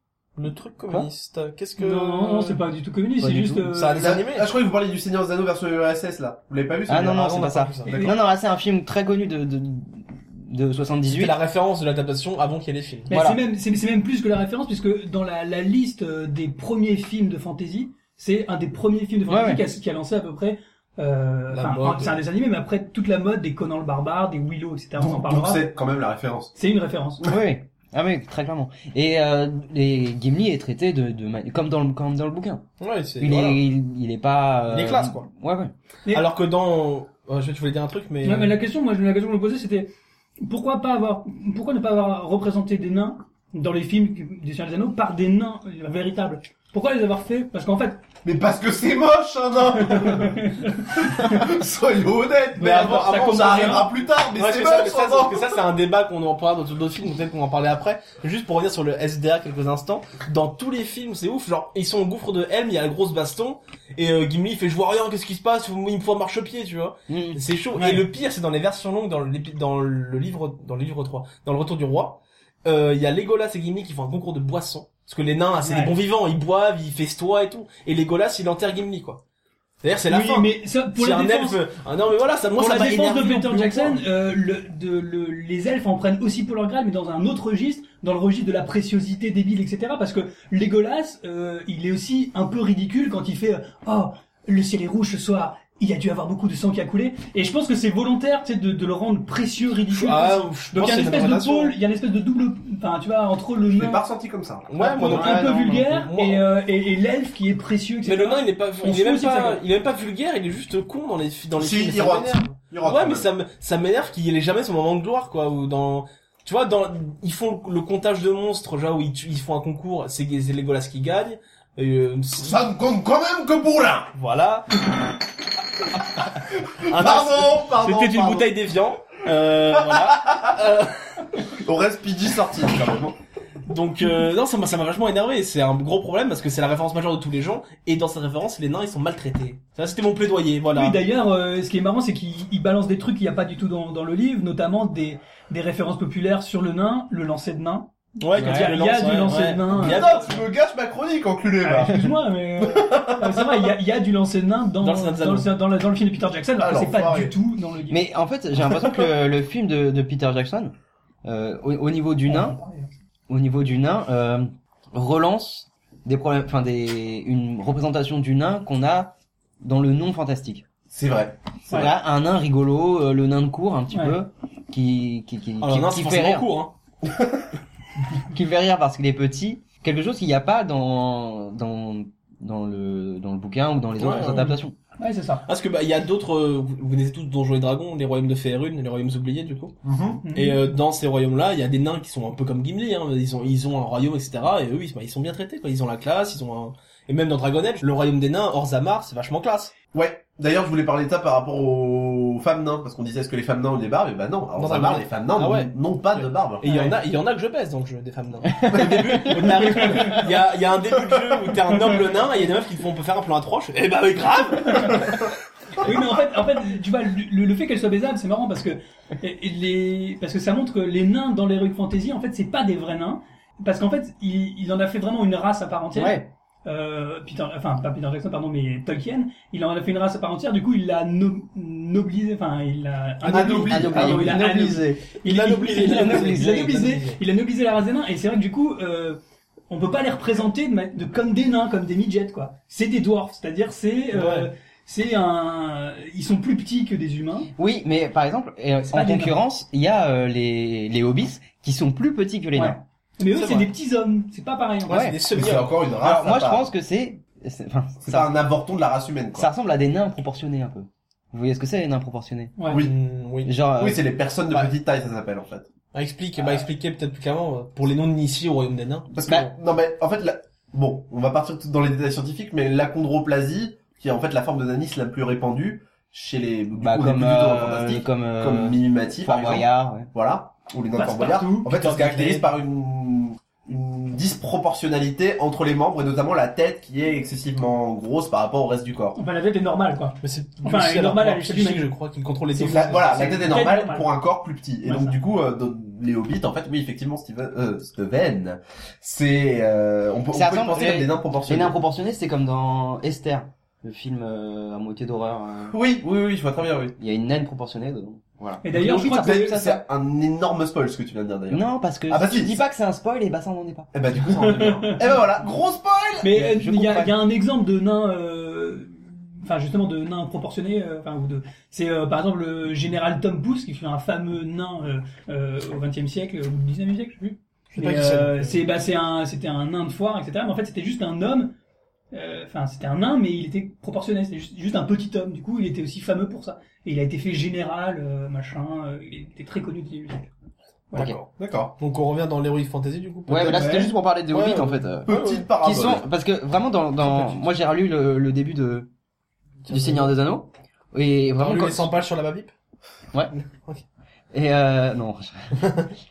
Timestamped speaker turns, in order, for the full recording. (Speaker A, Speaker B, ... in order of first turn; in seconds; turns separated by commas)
Speaker A: 0.4-2.6, Speaker B: 1.8-4.1, Speaker C: 3.2-3.7, Speaker A: 3.7-4.5, Speaker D: 4.0-8.1, Speaker C: 6.9-11.4, Speaker A: 7.2-8.0, Speaker B: 7.8-8.1, Speaker A: 11.1-13.1, Speaker C: 13.1-13.4, Speaker B: 13.1-25.7, Speaker C: 19.3-19.6, Speaker A: 21.5-22.2, Speaker D: 25.0-26.5, Speaker B: 26.6-27.2, Speaker C: 27.2-32.6, Speaker A: 32.8-33.6, Speaker C: 33.2-35.7, Speaker A: 34.7-35.3, Speaker A: 36.1-38.5, Speaker B: 38.2-39.9, Speaker B: 40.4-48.0, Speaker D: 48.2-55.6, Speaker B: 49.9-50.7, Speaker A: 52.6-79.2, Speaker B: 52.6-53.9, Speaker C: 67.1-67.4, Speaker B: 67.8-68.0, Speaker B: 75.6-76.0, Speaker A: 79.8-84.0, Speaker B: 80.1-81.6, Speaker B: 82.6-104.0, Speaker A: 99.9-101.8, Speaker D: 103.7-105.4, Speaker A: 104.7-106.5, Speaker B: 104.8-109.6, Speaker C: 105.2-105.5, Speaker A: 108.0-122.7, Speaker D: 111.6-113.3, Speaker D: 122.4-124.1, Speaker A: 124.2-124.7, Speaker D: 126.8-128.5, Speaker A: 126.8-131.0, Speaker D: 129.8-130.5, Speaker D: 131.6-133.2, Speaker A: 133.7-141.0, Speaker B: 140.8-150.3, Speaker A: 148.2-150.3, Speaker C: 148.4-148.7, Speaker D: 149.8-153.5, Speaker B: 151.6-158.0, Speaker A: 154.8-155.5, Speaker D: 156.6-157.3, Speaker C: 157.9-160.7, Speaker C: 161.2-162.6, Speaker B: 162.3-162.9, Speaker C: 163.3-170.7, Speaker D: 170.9-171.8, Speaker C: 171.7-176.5, Speaker B: 173.9-174.2, Speaker A: 175.6-176.8, Speaker C: 178.3-184.8, Speaker A: 184.0-184.5, Speaker B: 184.3-185.4, Speaker A: 185.5-189.8, Speaker D: 189.8-190.2, Speaker B: 190.2-190.6, Speaker A: 190.3-199.7, Speaker D: 199.9-206.6, Speaker A: 204.6-215.3, Speaker B: 206.7-206.9, Speaker C: 208.6-210.2, Speaker D: 208.8-209.0, Speaker B: 214.7-215.0, Speaker B: 215.8-239.2, Speaker C: 225.9-226.3, Speaker C: 233.2-235.1, Speaker A: 233.3-237.2, Speaker C: 235.7-236.8, Speaker B: 239.7-247.5, Speaker A: 244.1-244.5, Speaker C: 247.6-252.8, Speaker B: 248.9-249.3, Speaker B: 252.6-255.1, Speaker A: 253.3-253.7, Speaker C: 254.9-255.2, Speaker A: 254.9-255.8, Speaker D: 255.3-256.7, Speaker C: 256.0-258.4, Speaker D: 258.0-259.5, Speaker C: 259.4-262.6, Speaker B: 262.6-262.8, Speaker D: 262.7-262.9, Speaker A: 262.8-263.5, Speaker C: 263.5-264.0, Speaker D: 263.8-265.7, Speaker A: 265.9-269.1, Speaker D: 269.1-289.2, Speaker C: 276.8-280.1, Speaker B: 280.9-281.7, Speaker A: 281.7-282.5, Speaker B: 289.2-291.9, Speaker A: 290.2-293.4, Speaker B: 292.5-294.1, Speaker D: 292.7-301.8, Speaker B: 294.9-295.2, Speaker C: 300.3-305.8, Speaker D: 305.7-307.0, Speaker C: 307.0-309.8, Speaker B: 308.6-309.6, Speaker D: 308.7-312.6, Speaker C: 311.5-313.9, Speaker D: 313.9-316.3, Speaker B: 314.4-315.0, Speaker B: 316.2-331.5, Speaker C: 316.3-317.1, Speaker A: 327.8-328.6, Speaker B: 332.1-340.3, Speaker D: 340.9-341.7, Speaker A: 341.8-345.4, Speaker C: 343.3-348.9, Speaker B: 343.5-343.9, Speaker D: 345.1-346.1, Speaker A: 347.0-347.4, Speaker A: 349.7-350.1, Speaker C: 349.7-351.9, Speaker A: 351.4-352.5, Speaker C: 354.3-355.6